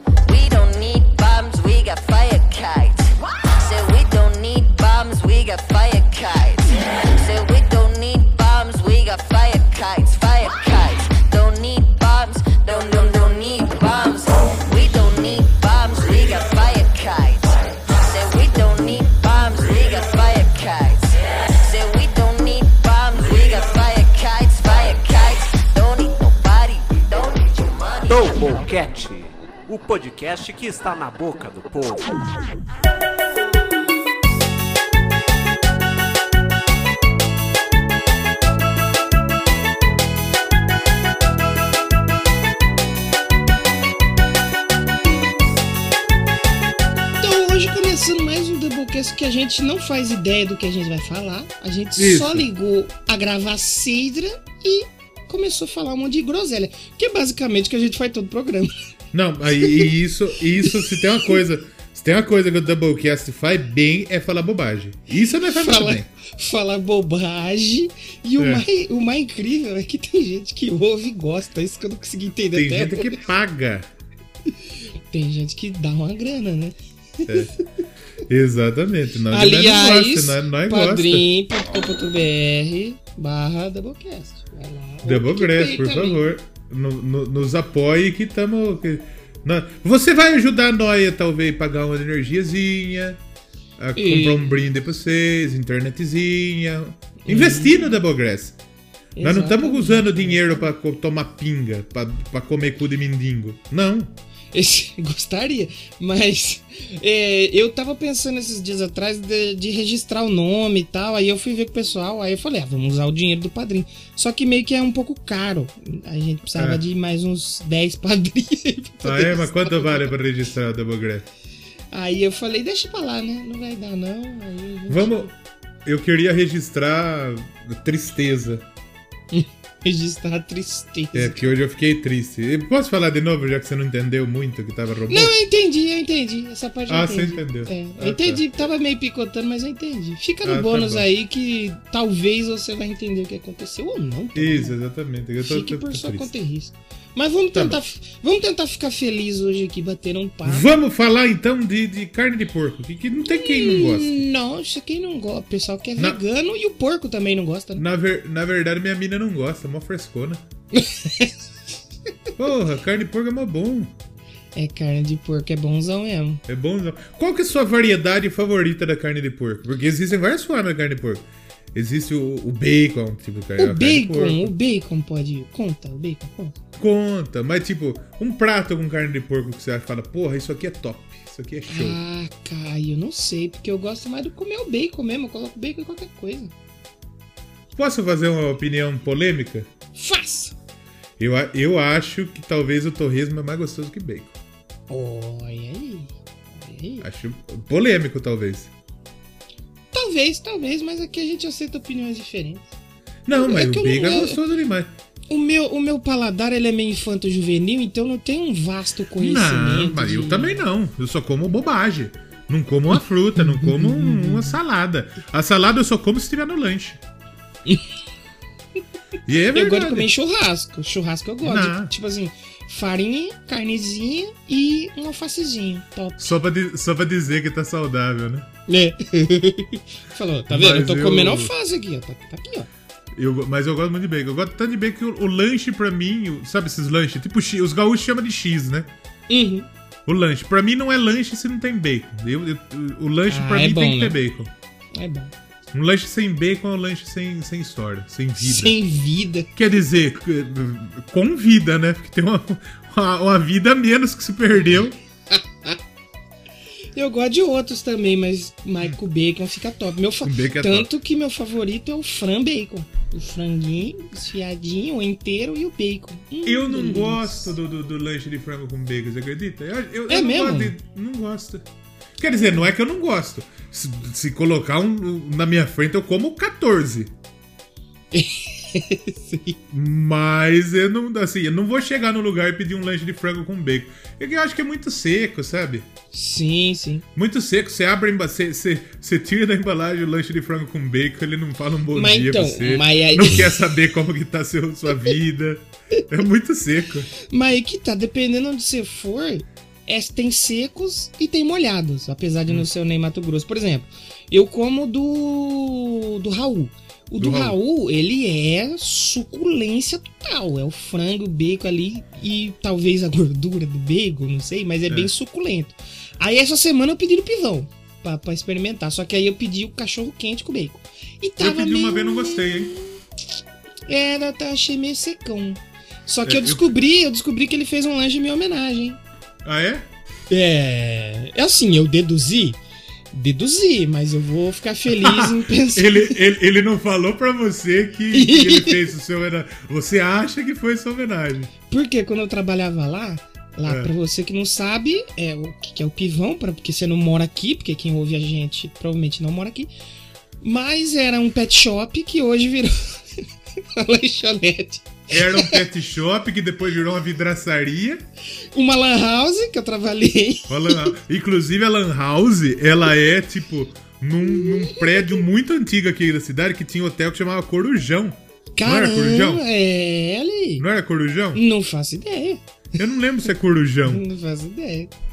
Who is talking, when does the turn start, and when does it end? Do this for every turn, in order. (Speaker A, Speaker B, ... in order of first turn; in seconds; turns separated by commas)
Speaker A: 0.3-28.4, Speaker B: 28.1-32.3, Speaker C: 47.2-58.7, Speaker D: 52.0-52.5, Speaker D: 59.1-66.1, Speaker C: 59.6-59.9, Speaker C: 60.6-61.4, Speaker C: 65.5-73.2, Speaker D: 68.4-68.7, Speaker D: 72.5-73.9, Speaker C: 74.6-77.6, Speaker D: 77.3-77.5, Speaker D: 78.3-81.3, Speaker C: 79.3-86.3, Speaker D: 85.0-93.2, Speaker D: 93.8-98.6, Speaker C: 94.0-94.6, Speaker C: 97.2-97.8, Speaker C: 99.2-100.7, Speaker D: 99.2-104.1, Speaker C: 104.5-120.1, Speaker D: 116.6-116.8, Speaker D: 119.0-121.2, Speaker C: 121.9-125.3, Speaker D: 124.9-125.3, Speaker D: 125.8-128.7, Speaker C: 129.3-131.4, Speaker D: 131.1-135.3, Speaker C: 135.1-144.7, Speaker D: 136.9-138.4, Speaker D: 140.4-141.1, Speaker D: 144.3-146.3, Speaker C: 145.4-150.7, Speaker D: 150.4-154.2, Speaker C: 153.2-157.8, Speaker D: 157.8-160.4, Speaker C: 160.7-161.4, Speaker D: 162.4-163.9, Speaker C: 164.6-166.4, Speaker D: 166.5-174.5, Speaker C: 173.6-176.6, Speaker D: 176.8-182.0, Speaker C: 181.7-186.5, Speaker D: 187.8-189.7, Speaker C: 190.0-190.5, Speaker D: 191.2-194.4, Speaker C: 194.9-197.1, Speaker D: 197.0-198.7, Speaker C: 199.9-202.7, Speaker D: 203.2-204.9, Speaker C: 203.3-204.4, Speaker C: 205.3-210.6, Speaker D: 209.2-217.0, Speaker C: 213.4-214.6, Speaker D: 219.3-220.1, Speaker C: 219.5-226.3, Speaker D: 221.4-221.9, Speaker D: 226.2-228.5, Speaker C: 228.7-232.7, Speaker D: 230.5-231.5, Speaker D: 233.1-238.9, Speaker C: 239.3-239.7, Speaker D: 240.1-244.5, Speaker C: 243.3-244.2, Speaker C: 244.9-245.3, Speaker D: 245.7-248.8, Speaker C: 248.4-249.5, Speaker D: 249.6-255.0, Speaker C: 255.3-255.8, Speaker C: 256.9-267.5, Speaker D: 260.2-260.9, Speaker D: 266.4-271.7, Speaker C: 270.1-270.8, Speaker D: 272.2-277.1, Speaker C: 278.1-279.6, Speaker D: 279.7-285.9, Speaker C: 286.1-287.1, Speaker D: 287.1-297.1, Speaker C: 291.9-293.5, Speaker C: 297.2-322.9, Speaker D: 307.2-307.6, Speaker D: 321.4-322.8, Speaker C: 323.9-329.0, Speaker D: 326.2-326.6, Speaker D: 329.4-329.9, Speaker C: 330.3-332.6, Speaker C: 333.1-336.2, Speaker D: 335.0-341.5, Speaker C: 338.1-338.9, Speaker C: 341.7-349.7, Speaker D: 343.7-343.9, Speaker C: 350.4-353.2, Speaker C: 353.7-355.6, Speaker D: 355.1-358.0, Speaker C: 358.5-360.9, Speaker D: 360.5-369.4, Speaker C: 364.3-365.1, Speaker C: 368.6-370.6, Speaker D: 370.6-371.4, Speaker C: 371.3-372.4, Speaker D: 372.8-374.0, Speaker C: 373.9-374.9